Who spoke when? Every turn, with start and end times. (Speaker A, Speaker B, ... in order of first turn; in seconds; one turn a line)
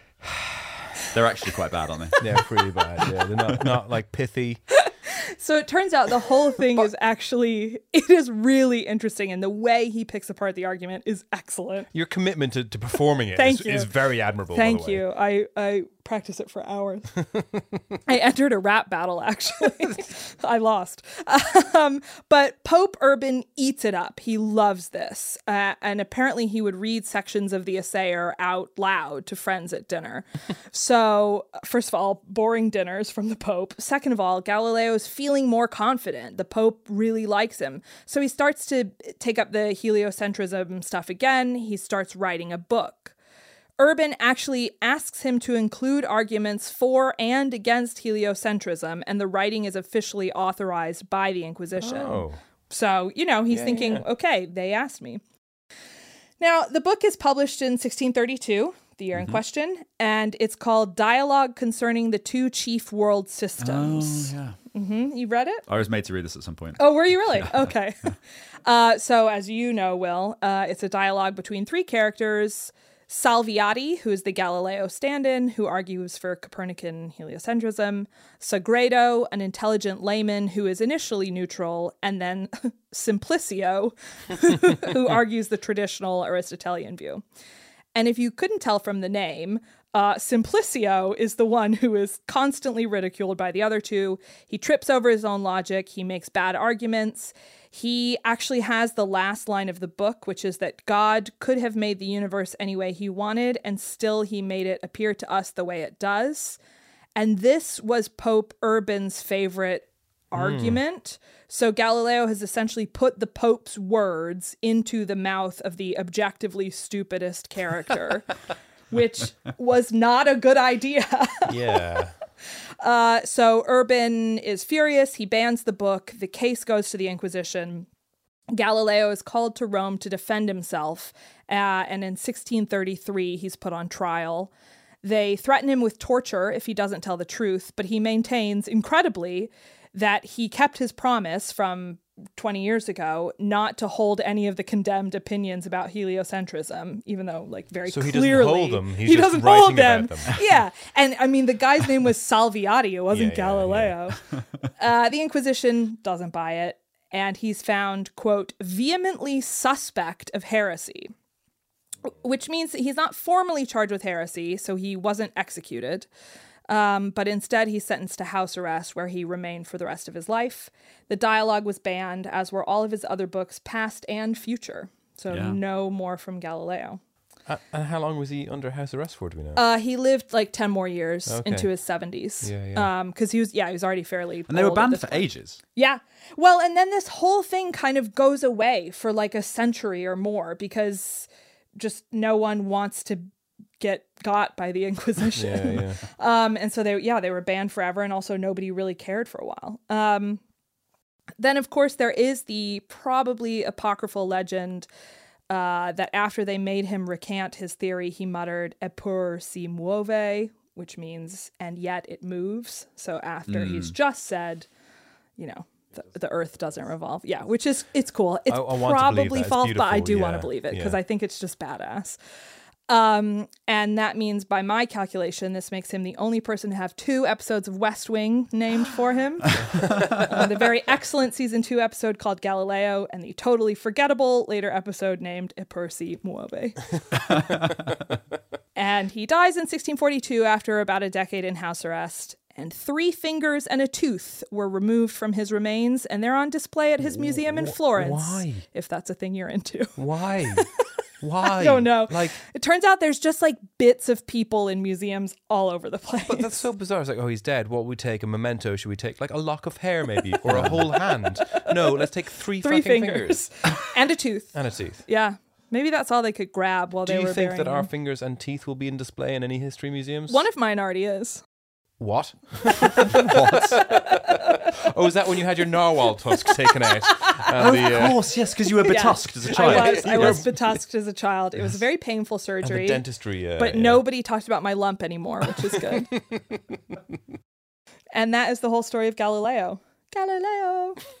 Speaker A: 1.1-2.2
Speaker B: 2.2-4.6
Speaker C: 4.8-11.9
Speaker B: 11.9-15.0
Speaker C: 13.3-13.9
Speaker C: 14.5-17.1
Speaker C: 18.1-43.1
Speaker C: 43.8-55.2
Speaker B: 51.8-52.4
Speaker B: 53.5-54.0
Speaker C: 56.4-65.6
Speaker A: 59.1-59.4
Speaker A: 63.6-64.5
Speaker A: 65.7-67.7
Speaker C: 66.8-68.0
Speaker C: 68.6-87.2
Speaker C: 87.9-106.6
Speaker C: 107.2-118.3
Speaker B: 110.3-110.8
Speaker C: 118.9-121.5
Speaker B: 121.5-122.1
Speaker C: 122.8-127.9
Speaker C: 128.5-134.5
Speaker C: 135.0-154.2
Speaker B: 147.9-150.3
Speaker B: 153.1-154.0
Speaker C: 154.8-161.1
Speaker C: 162.1-166.1
Speaker C: 166.7-177.0
Speaker A: 175.3-175.6
Speaker B: 177.5-179.6
Speaker C: 179.6-193.3
Speaker B: 181.3-181.7
Speaker B: 182.4-182.9
Speaker A: 184.5-185.6
Speaker C: 193.8-200.4
Speaker B: 195.3-196.0
Speaker C: 201.4-204.9
Speaker C: 205.5-214.7
Speaker A: 213.5-213.9
Speaker C: 215.4-222.2
Speaker B: 218.5-221.0
Speaker C: 222.9-236.9
Speaker C: 238.8-250.0
Speaker B: 247.0-248.6
Speaker B: 250.0-250.7
Speaker B: 251.2-252.4
Speaker C: 251.6-256.7
Speaker B: 256.2-263.4
Speaker A: 260.5-260.8
Speaker C: 262.6-264.5
Speaker B: 264.5-265.0
Speaker C: 265.1-267.9
Speaker B: 267.0-270.4
Speaker C: 270.3-271.4
Speaker B: 272.0-278.2
Speaker A: 273.1-273.8
Speaker A: 277.5-280.4
Speaker C: 278.8-283.0
Speaker B: 279.5-280.7
Speaker B: 282.6-284.1
Speaker C: 283.6-286.1
Speaker B: 286.1-286.6
Speaker C: 288.1-291.0